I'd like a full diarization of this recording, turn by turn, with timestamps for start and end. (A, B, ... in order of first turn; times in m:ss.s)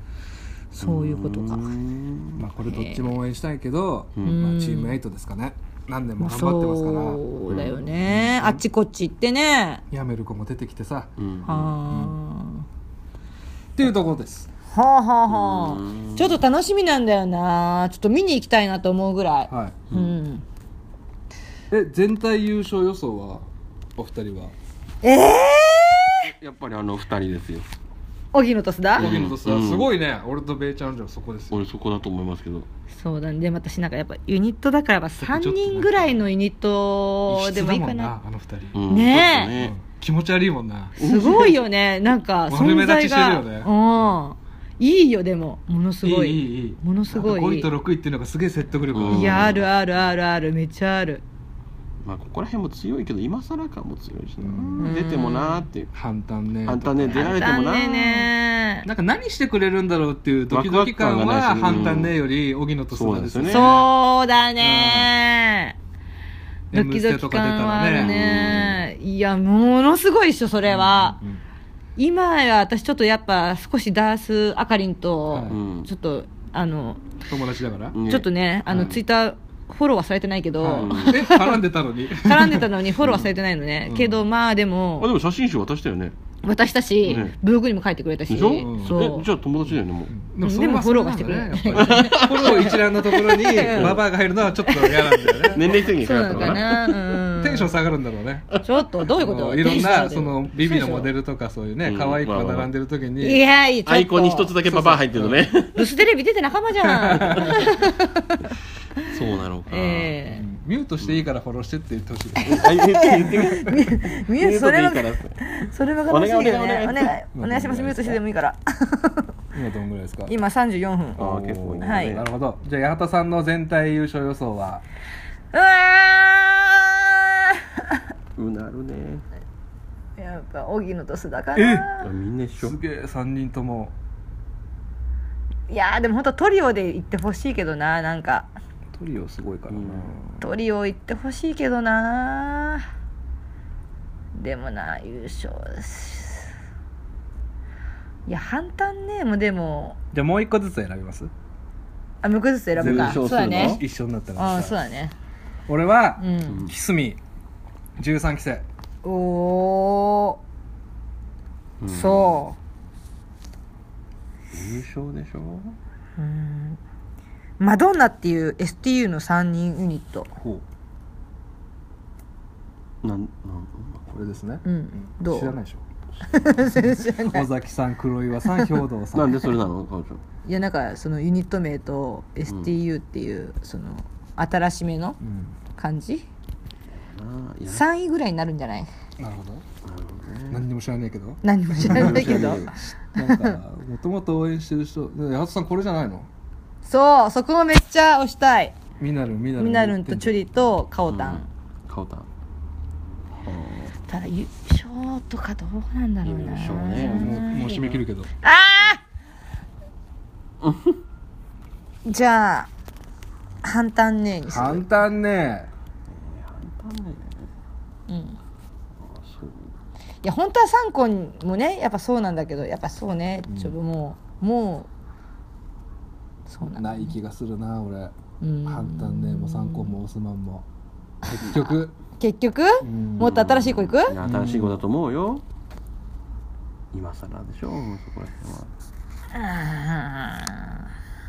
0:00.7-0:01.7 A
0:00.8-0:02.4 B
0:02.4-0:07.2 C
0:02.6-0:03.1 A
0:04.2-0:05.0 A
0:06.2-0:09.8 A
0:07.5-0:07.8 B
0:08.0-0:08.6 C
0:09.9-0:11.1 C
0:11.2-0:11.8 B
0:11.4-0:12.6 A
0:11.9-0:12.2 C
0:13.7-0:14.5 C
0:14.7-0:20.4 A
0:15.3-0:16.4 B
0:19.5-0:19.8 C
0:19.9-0:20.2 B
0:21.7-0:24.5 C
0:25.0-0:26.3 A
0:26.2-0:27.7 B
0:28.3-0:29.1 A
0:29.0-0:29.9 B
0:29.0-0:31.6 C
0:31.5-0:32.7 B
0:32.9-0:38.1 A
0:35.2-0:36.2 C
0:37.3-0:38.8 C
0:38.7-0:39.8 B
0:38.9-0:39.5 A
0:39.6-0:41.0 C
0:41.0-0:41.6 B
0:41.0-0:47.7 A
0:42.5-0:44.2 C
0:46.0-0:49.6 C
0:48.9-0:49.6 B
0:49.1-0:51.2 A
0:52.0-0:55.9 B
0:54.4-0:54.9 C
0:54.8-0:55.7 A
0:55.9-0:57.4 C
0:56.6-0:58.3 B
0:57.1-0:58.9 A
0:58.8-1:03.9 C
1:00.5-1:02.2 B
1:02.9-1:03.8 B
1:03.5-1:05.8 A
1:04.6-1:05.1 C
1:06.7-1:08.7 C
1:06.7-1:11.2 A
1:07.9-1:08.8 B
1:10.7-1:11.4 C
1:12.0-1:17.1 A
1:15.3-1:15.6 C
1:15.5-1:15.9 B
1:17.3-1:18.0 C
1:17.9-1:18.3 B
1:18.1-1:21.6 A
1:18.7-1:19.0 C
1:20.6-1:22.7 C
1:20.8-1:21.2 B
1:22.2-1:25.1 A
1:23.0-1:23.3 B
1:23.8-1:24.2 C
1:25.0-1:26.2 B
1:26.4-1:29.3 A
1:27.0-1:27.4 B
1:28.3-1:30.1 B
1:28.6-1:29.0 C
1:29.7-1:36.6 C
1:30.4-1:34.0 A
1:31.7-1:32.8 B
1:33.6-1:34.0 B
1:34.6-1:37.7 A
1:35.2-1:37.2 B
1:37.4-1:38.5 C
1:38.6-1:41.1 A
1:39.1-1:43.4 C
1:41.8-1:42.7 B
1:43.2-1:44.8 A
1:43.8-1:45.9 B
1:44.7-1:45.4 C
1:45.7-1:48.4 A
1:46.8-1:47.7 C
1:47.1-1:47.6 B
1:49.0-1:50.2 B
1:49.7-1:50.4 A
1:50.3-1:52.7 C
1:52.4-1:59.3 A
1:52.4-1:57.1 B
1:57.3-1:58.2 C
1:59.5-2:00.3 C
2:00.3-2:01.2 A
2:01.2-2:04.8 C
2:01.2-2:02.3 B
2:01.8-2:02.2 A
2:05.5-2:08.0 A
2:08.4-2:09.2 B
2:10.2-2:12.0 A
2:11.5-2:11.8 C
2:12.0-2:12.8 B
2:12.6-2:13.9 C
2:15.7-2:18.5 A
2:18.9-2:20.4 C
2:19.7-2:20.1 B
2:20.4-2:22.8 A
2:24.3-2:26.5 A
2:28.3-2:30.0 A
2:30.1-2:31.3 C
2:32.2-2:33.8 A
2:32.8-2:33.8 B
2:32.8-2:34.7 C
2:34.4-2:35.1 A
2:35.7-2:37.2 C
2:36.2-2:36.6 A
2:38.0-2:38.6 C
2:39.0-2:40.4 A
2:41.8-2:42.4 B
2:41.9-2:42.6 A
2:44.5-2:45.8 B
2:46.2-2:46.8 A
2:47.6-2:50.3 A
2:53.0-2:54.1 B
2:54.1-2:59.5 C
2:54.6-2:55.5 A
2:56.3-2:57.5 A
2:59.1-3:00.2 B
3:00.4-3:05.2 A
3:05.2-3:05.6 C
3:05.8-3:06.2 A
3:07.1-3:07.8 B
3:07.7-3:08.9 A
3:09.2-3:09.6 C
3:09.8-3:10.6 B
3:10.5-3:16.3 C
3:11.4-3:13.6 A
3:11.8-3:12.7 B
3:16.8-3:18.8 A
3:19.0-3:20.4 C
3:19.6-3:21.5 A
3:21.1-3:22.3 B
3:23.3-3:23.9 B
3:24.1-3:27.9 A
3:26.2-3:28.0 B
3:27.0-3:28.3 C
3:28.4-3:29.0 A
3:30.6-3:31.0 B
3:32.0-3:32.7 A
3:33.6-3:34.9 A
3:34.5-3:35.7 C
3:36.1-3:37.5 B
3:38.1-3:38.4 A
3:39.0-3:39.7 B
3:40.2-3:44.9 A
3:43.5-3:43.8 C
3:46.5-3:47.1 A
3:46.7-3:48.1 C
3:48.4-3:49.9 A
3:48.6-3:50.6 C
3:51.2-3:51.9 C
3:51.2-3:54.1 A
3:52.8-3:53.3 C
3:53.2-3:55.4 B
3:54.2-3:54.8 C
3:56.9-3:58.7 B
3:59.3-4:00.8 A